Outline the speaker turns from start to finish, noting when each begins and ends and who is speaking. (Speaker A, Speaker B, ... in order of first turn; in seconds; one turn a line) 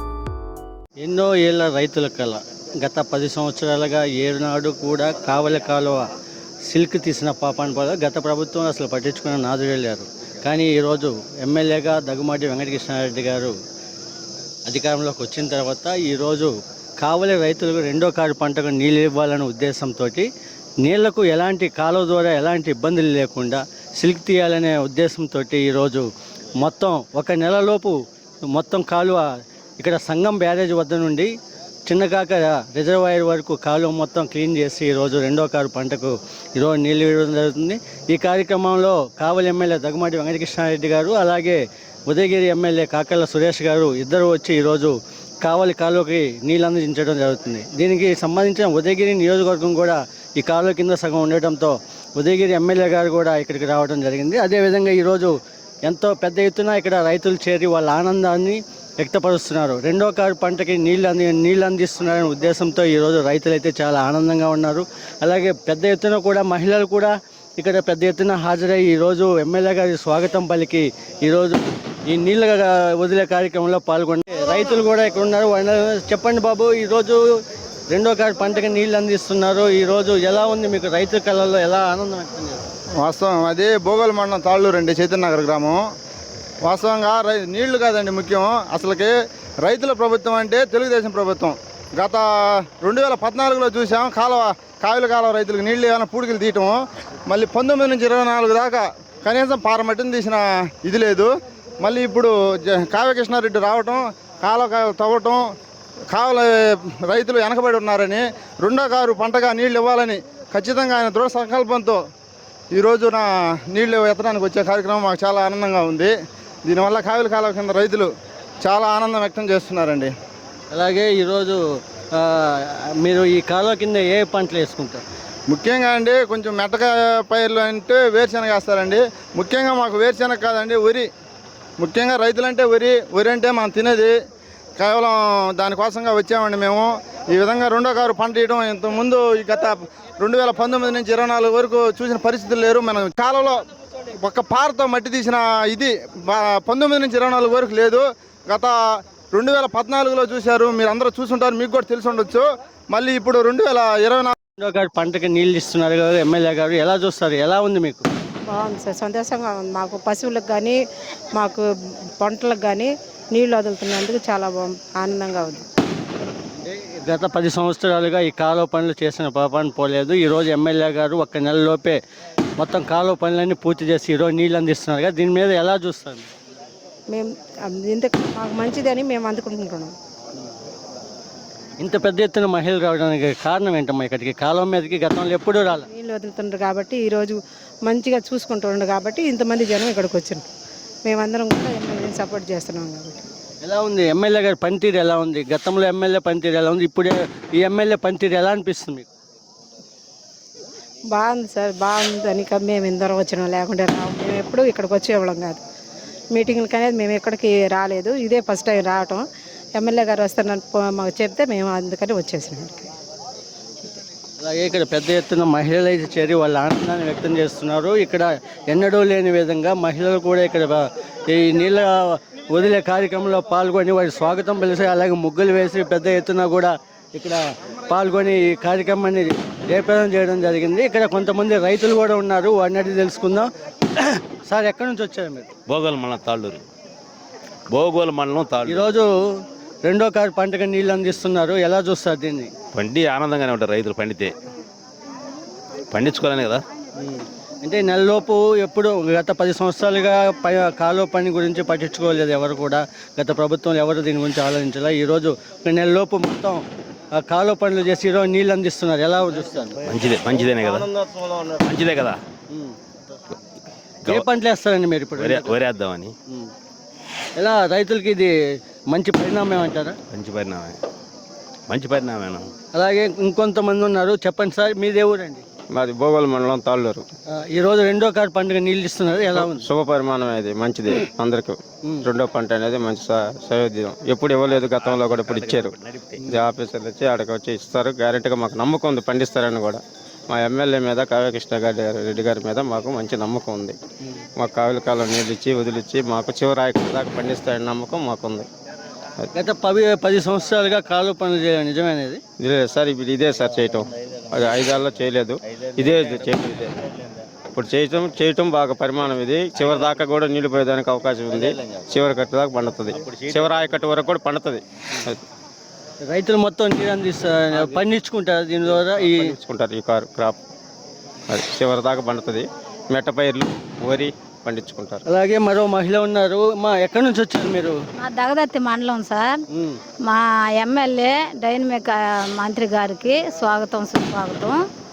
Speaker A: 1.0-6.1
Speaker A: 6.7-13.6
Speaker A: 14.7-20.3
Speaker A: 20.8-26.1
Speaker A: 26.6-27.9
Speaker A: 28.5-29.2
Speaker A: 29.8-31.3
Speaker A: 31.9-55.3
Speaker A: 55.9-77.2
Speaker A: 77.9-82.6
Speaker B: 83.0-85.8
Speaker B: 86.7-96.8
Speaker B: 97.3-105.4
Speaker B: 106.1-106.5
Speaker B: 107.1-112.0
Speaker B: 112.7-116.1
Speaker B: 116.7-118.1
Speaker B: 118.6-120.1
Speaker A: 120.7-121.6
Speaker A: 122.2-125.0
Speaker B: 125.5-131.1
Speaker B: 131.8-134.1
Speaker B: 134.8-143.6
Speaker B: 144.2-148.7
Speaker B: 149.3-154.3
Speaker A: 154.6-158.1
Speaker C: 158.5-160.8
Speaker C: 161.4-161.6
Speaker C: 162.2-165.6
Speaker A: 166.6-172.0
Speaker A: 172.6-176.3
Speaker C: 177.1-179.9
Speaker A: 181.8-185.9
Speaker C: 185.9-190.4
Speaker C: 191.1-193.2
Speaker A: 193.6-199.1
Speaker C: 201.1-205.6
Speaker C: 206.3-209.2
Speaker C: 209.8-212.9
Speaker A: 214.4-235.5
Speaker D: 235.7-236.7
Speaker D: 237.7-238.9
Speaker A: 238.7-239.1
Speaker A: 239.8-242.5
Speaker D: 242.7-244.3
Speaker D: 245.9-246.6
Speaker A: 247.0-256.6
Speaker A: 257.2-259.8
Speaker D: 259.9-262.2
Speaker A: 264.1-265.6
Speaker D: 265.2-266.1
Speaker A: 267.4-268.3
Speaker A: 268.9-270.0
Speaker D: 270.1-270.8
Speaker D: 271.7-272.5
Speaker A: 272.8-275.4
Speaker E: 275.7-277.1
Speaker A: 277.3-279.6
Speaker E: 279.4-285.8
Speaker D: 284.7-286.2
Speaker E: 286.3-293.8
Speaker E: 294.4-298.5
Speaker A: 299.4-302.2
Speaker E: 302.4-306.7
Speaker E: 307.5-315.2
Speaker A: 316.1-319.3
Speaker E: 319.1-320.4
Speaker E: 321.3-325.0
Speaker A: 325.1-327.8
Speaker F: 328.0-329.4
Speaker A: 329.5-329.8
Speaker F: 330.1-334.5